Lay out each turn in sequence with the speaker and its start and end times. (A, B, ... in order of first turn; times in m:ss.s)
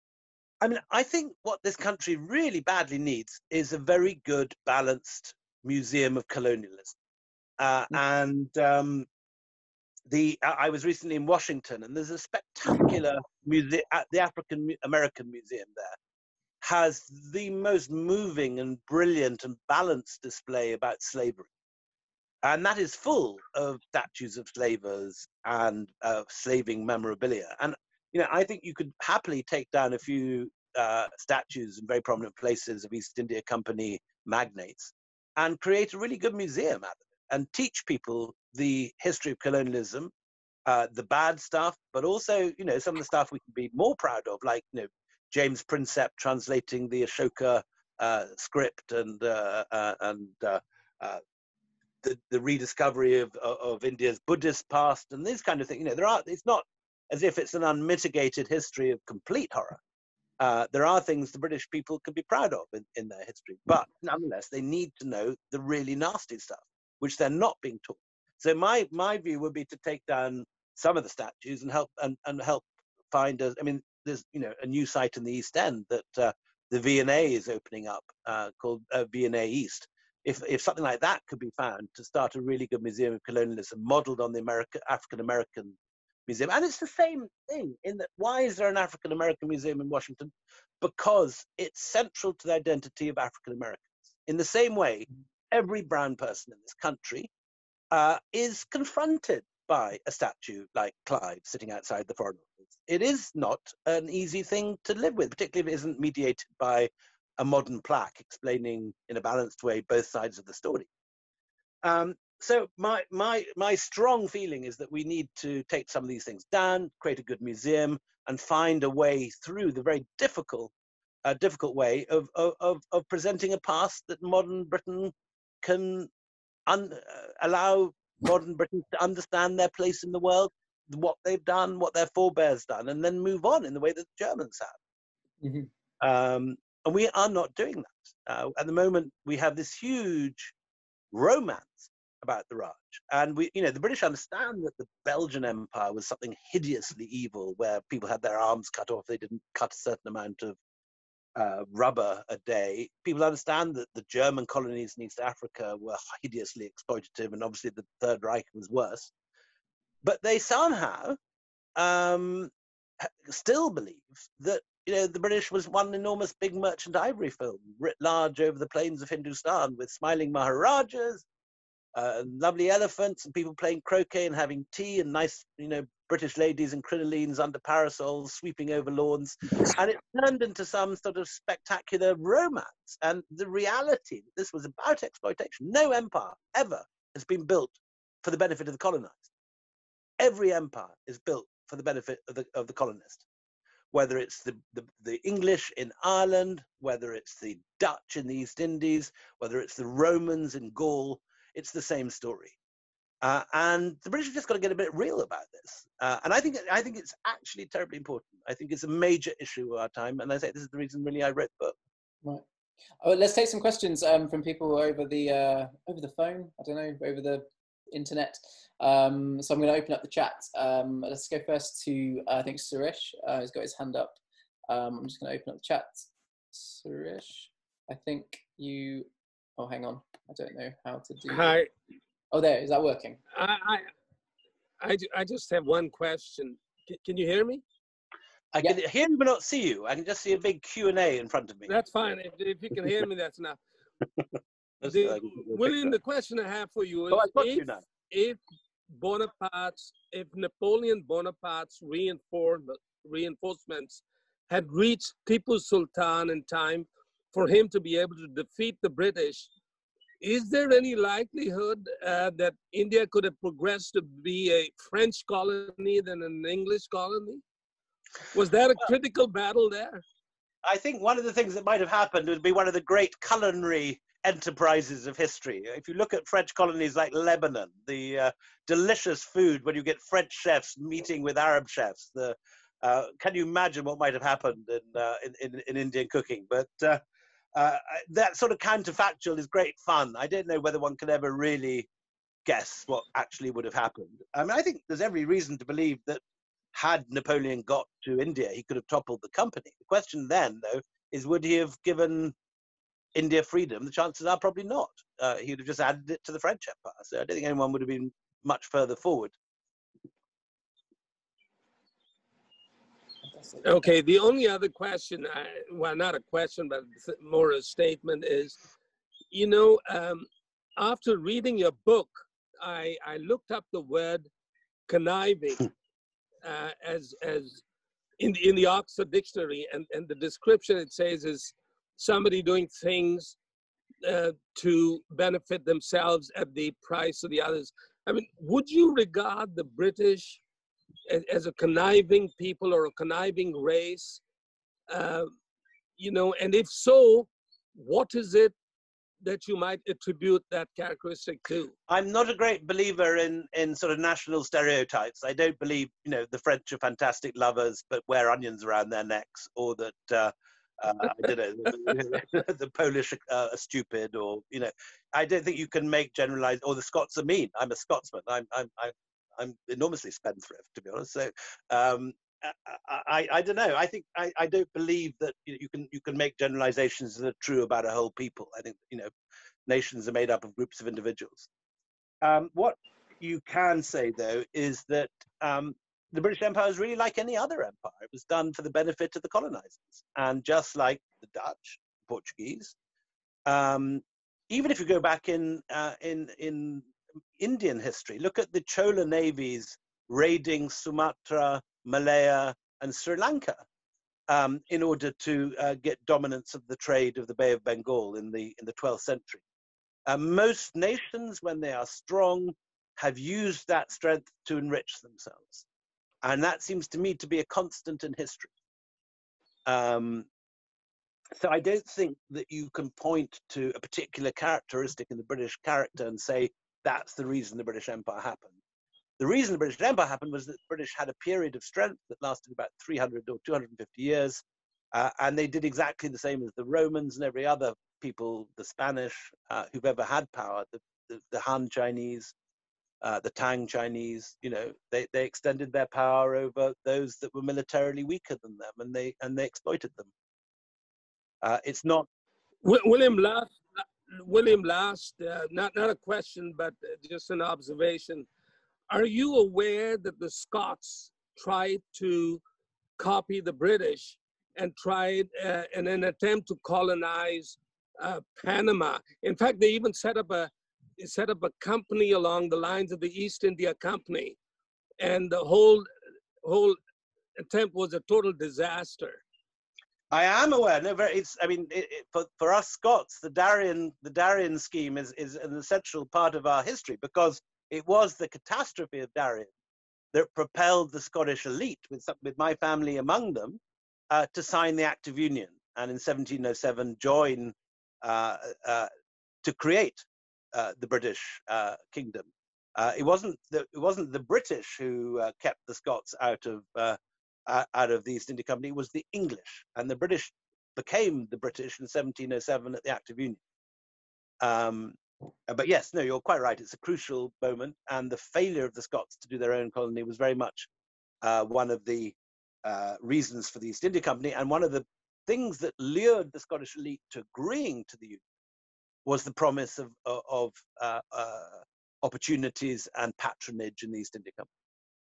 0:00.6-0:07.0 A
0:07.6-0:09.1 A
0:10.1-0:16.0 A
0:16.6-0:21.5 A
0:22.4-0:40.1 A
0:40.7-0:51.2 A
0:52.0-0:59.8 A
1:00.4-1:25.8 A
1:26.3-1:37.3 A
1:37.9-1:50.9 A
1:51.8-2:00.7 A
2:01.2-2:06.1 A
2:06.7-2:14.8 A
2:15.4-2:15.7 B
2:16.0-2:20.5 A
2:21.1-2:30.6 A
2:31.4-2:39.1 A
2:40.0-2:41.2 A
2:41.8-2:42.5 A
2:43.0-2:51.2 A
2:52.0-3:09.3 A
3:10.2-3:13.3 A
3:13.9-3:22.6 A
3:23.2-3:31.8 A
3:33.0-3:44.2 B
3:44.7-3:51.6 B
3:51.3-3:51.7 C
3:52.3-3:53.2 B
3:53.3-3:53.9 C
3:54.8-3:57.6 C
3:58.5-4:01.7 A
4:01.7-4:03.6 C
4:04.8-4:05.8 A
4:04.8-4:08.4 C
4:07.1-4:07.8 A
4:08.9-4:19.5 C
4:20.2-4:27.4 C
4:28.3-4:30.0 C
4:30.6-4:47.0 A
4:47.6-4:51.9 A
4:52.5-4:56.2 A
4:56.7-5:02.3 A
5:03.2-5:09.3 A
5:13.3-5:13.7 B
5:13.6-5:18.6 C
5:19.3-5:24.3 C
5:24.9-5:25.7 C
5:26.4-5:27.6 C
5:28.2-5:33.4 C
5:34.0-5:40.4 C
5:41.1-5:44.2 C
5:44.9-5:45.3 C
5:46.0-5:48.5 C
5:49.2-5:51.7 C
5:51.9-6:19.1 A
6:19.7-6:21.5 A
6:22.2-6:32.8 A
6:33.5-6:43.6 A
6:44.3-6:49.4 A
6:50.1-6:55.6 A
6:56.2-6:58.5 A
6:59.7-7:00.3 A
7:01.4-7:08.6 A
7:09.2-7:14.4 A
7:14.9-7:22.3 A
7:23.0-7:30.1 A
7:31.4-7:32.1 A
7:32.6-7:38.3 C
7:38.9-7:42.4 C
7:43.0-7:54.4 C
7:55.0-7:55.9 C
7:56.4-7:56.8 C
7:57.4-7:59.2 C
8:00.1-8:09.5 A
8:10.1-8:18.9 A
8:19.4-8:33.4 A
8:34.4-8:40.7 A
8:41.2-8:48.2 A
8:49.1-8:54.5 A